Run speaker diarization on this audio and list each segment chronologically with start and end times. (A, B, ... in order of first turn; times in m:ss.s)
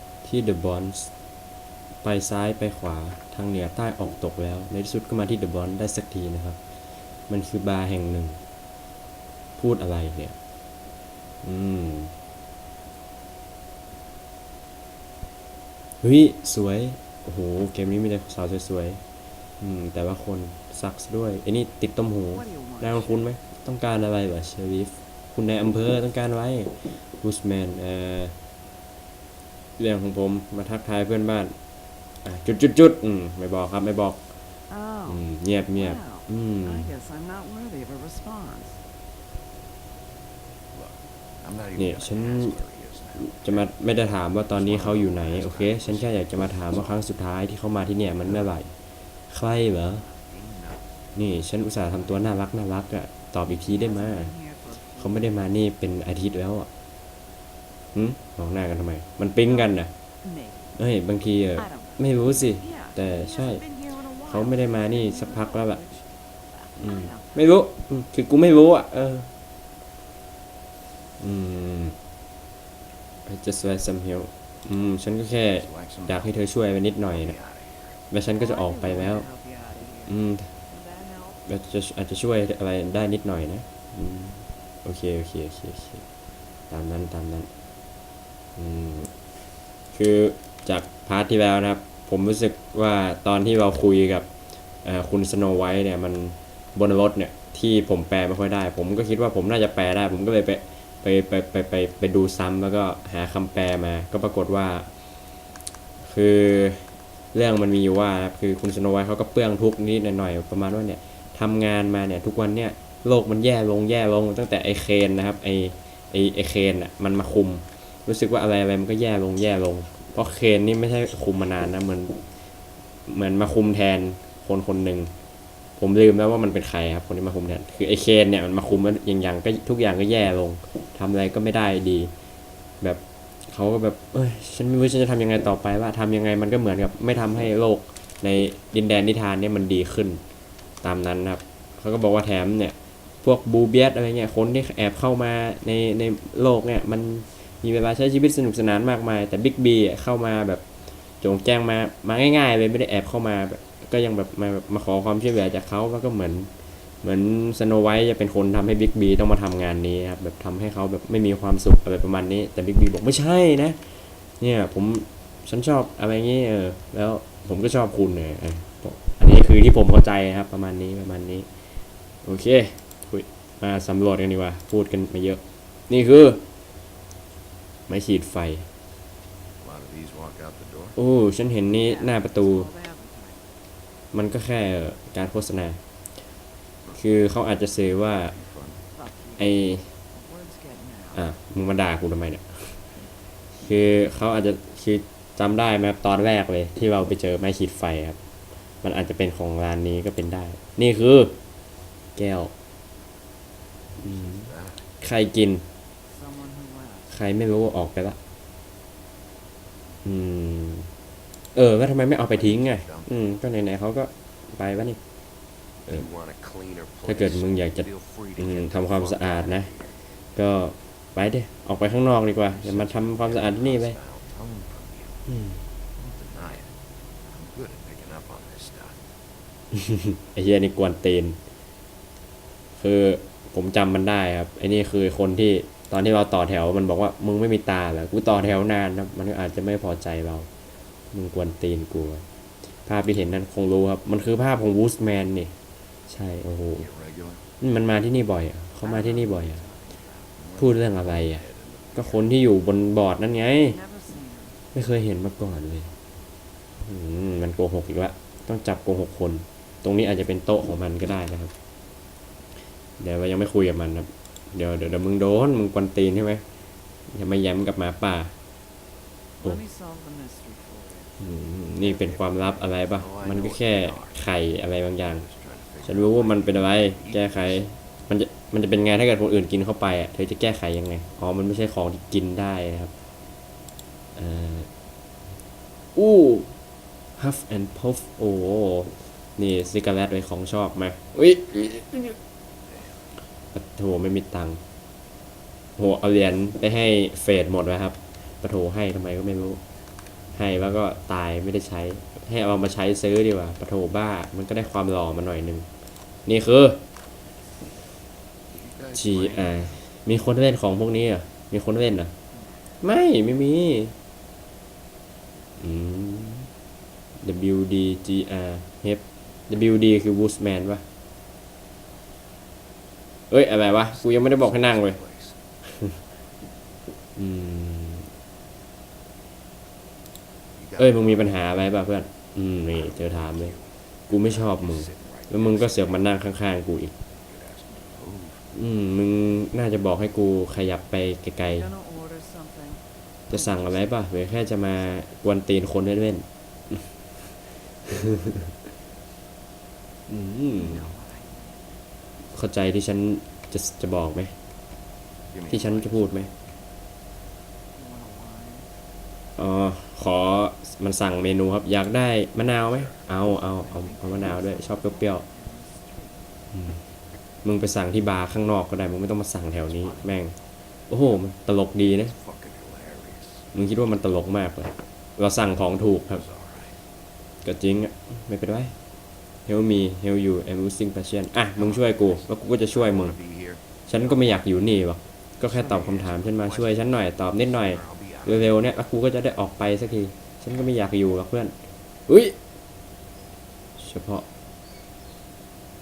0:00.2-0:01.1 A
0:02.0-0:06.6 A
0:07.3-0:08.4 A
0:09.6-0:10.4 A
0:11.4-0:12.1 A
0:16.0-0:19.0 A
0:19.6-0:28.3 A
0:22.4-0:23.3 B
0:29.8-0:31.5 A
0:32.2-0:34.2 A
0:34.7-0:35.2 B
0:35.1-0:36.9 A
0:35.8-0:38.8 B
0:41.4-0:43.4 C
0:41.8-0:42.6 A
0:43.2-0:48.7 A
0:44.8-0:45.8 C
0:49.3-0:50.0 A
0:50.1-0:50.8 C
0:51.2-0:54.3 A
0:53.7-0:55.2 B
0:55.0-0:56.7 A
0:58.0-0:59.9 A
1:00.2-1:00.7 B
1:00.8-1:03.6 A
1:01.6-1:02.0 B
1:02.5-1:06.0 B
1:04.3-1:05.8 A
1:06.5-1:07.4 B
1:06.8-1:09.3 A
1:11.2-1:12.0 A
1:13.3-1:17.4 A
1:17.4-1:17.7 C
1:18.1-1:19.3 A
1:18.4-1:20.2 B
1:20.1-1:20.5 A
1:20.7-1:21.4 B
1:21.5-1:26.0 A
1:26.7-1:27.5 A
1:28.6-1:29.1 A
1:29.9-1:34.3 A
1:34.8-1:44.9 A
1:46.0-2:02.2 A
2:03.1-2:05.1 A
2:05.8-2:12.1 A
2:12.8-2:20.2 A
2:20.8-2:30.6 A
2:31.2-2:36.5 A
2:37.0-2:43.8 A
2:44.4-2:51.5 A
2:52.2-2:56.4 A
2:57.9-2:58.7 A
2:59.6-3:00.9 C
3:01.0-3:02.7 A
3:01.8-3:03.4 B
3:04.1-3:05.8 A
3:07.0-3:08.4 A
3:09.0-3:09.6 B
3:09.4-3:09.9 A
3:10.1-3:11.2 B
3:11.1-3:12.8 A
3:13.6-3:18.2 A
3:18.8-3:21.3 A
3:22.2-3:22.5 A
3:24.0-3:25.6 A
3:26.1-3:27.1 B
3:27.1-3:28.2 A
3:30.0-3:30.9 A
3:31.6-3:35.0 A
3:32.6-3:33.0 C
3:35.9-3:39.9 C
3:37.1-3:39.7 A
3:40.4-3:44.0 A
3:42.6-3:45.2 C
3:45.3-3:45.6 A
3:46.0-3:46.7 C
3:47.3-3:49.0 C
3:49.7-3:51.4 A
3:52.8-4:00.5 A
4:01.1-4:02.2 A
4:02.8-4:05.5 A
4:06.1-4:06.9 A
4:07.0-4:07.4 C
4:07.6-4:09.6 A
4:08.8-4:10.1 B
4:10.6-4:13.8 A
4:11.2-4:12.0 C
4:13.6-4:14.6 B
4:14.7-4:15.9 A
4:16.8-4:21.5 A
4:23.0-4:26.4 A
4:27.1-4:28.3 A
4:29.4-4:31.1 B
4:31.2-4:35.2 A
4:33.1-4:34.0 C
4:35.3-4:37.2 C
4:35.8-4:42.9 A
4:44.2-4:44.7 A
4:46.0-4:46.5 A
4:47.2-4:52.2 A
4:53.5-4:54.6 A
4:55.8-4:59.6 A
5:00.4-5:05.7 A
5:06.3-5:06.8 A
5:08.6-5:09.4 C
5:08.9-5:12.1 A
5:12.8-5:13.9 A
5:15.6-5:16.5 A
5:17.2-5:20.8 A
5:23.3-5:25.0 A
5:24.1-5:25.3 C
5:27.2-5:28.1 A
5:30.7-5:31.0 C
5:30.8-5:33.6 A
5:33.0-5:33.5 C
5:34.1-5:36.9 A
5:34.3-5:35.9 C
5:37.3-5:38.4 C
5:38.5-5:41.7 A
5:41.6-5:43.7 B
5:43.3-5:46.8 A
5:47.9-5:48.5 A
5:50.1-5:50.9 A
5:50.5-5:51.7 B
5:52.3-5:54.3 A
5:55.4-5:56.0 C
5:55.5-5:56.3 A
5:57.7-5:58.7 B
5:59.4-6:05.2 A
6:03.4-6:06.3 B
6:06.5-6:06.8 A
6:07.4-6:10.4 A
6:10.9-6:12.1 A
6:12.2-6:13.4 C
6:13.5-6:16.2 A
6:16.3-6:16.7 C
6:17.4-6:18.7 A
6:19.5-6:23.2 A
6:21.8-6:22.1 C
6:22.8-6:23.6 C
6:23.9-6:31.5 A
6:25.7-6:26.5 C
6:27.8-6:28.3 C
6:32.1-6:32.4 A
6:33.8-6:34.2 A